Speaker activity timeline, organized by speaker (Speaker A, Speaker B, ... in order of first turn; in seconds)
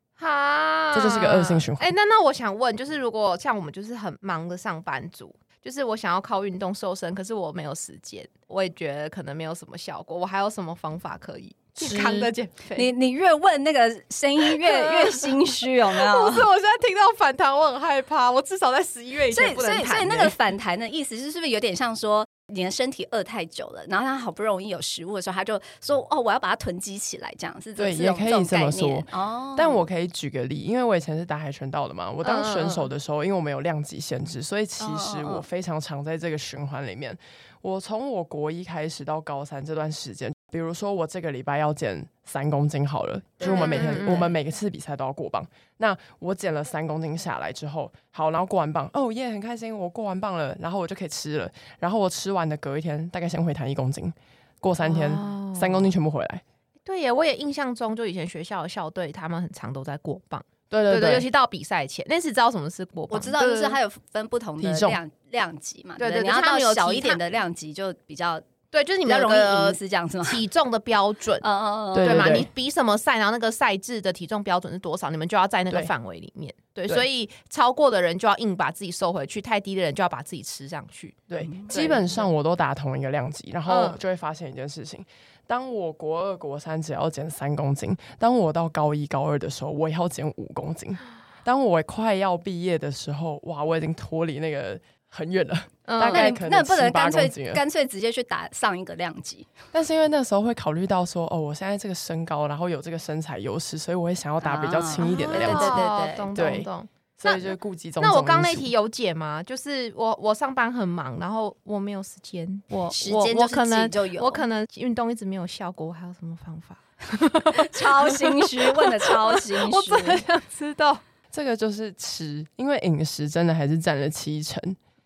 Speaker A: 0.2-12.9, 14.5-20.3, 32.2-32.9, 43.4-44.3, 54.8-55.9, 56.9-63.8, 66.0-67.2, 68.7-71.4, 72.0-82.3, 83.7-84.0, 95.8-96.4, 105.0-121.0
Speaker B: 0.9-1.9, 11.8-12.3, 27.8-56.4, 60.7-61.3, 64.6-65.0, 71.9-72.5, 81.3-97.6, 99.7-105.8, 106.3-108.7, 121.3-124.8
Speaker C: 11.9-16.5, 19.3-29.8, 34.8-35.4, 43.4-44.3, 63.1-68.4, 69.0-70.4, 71.4-72.4, 81.4-81.7, 96.0-99.5, 104.4-106.3, 112.7-114.4, 117.5-120.2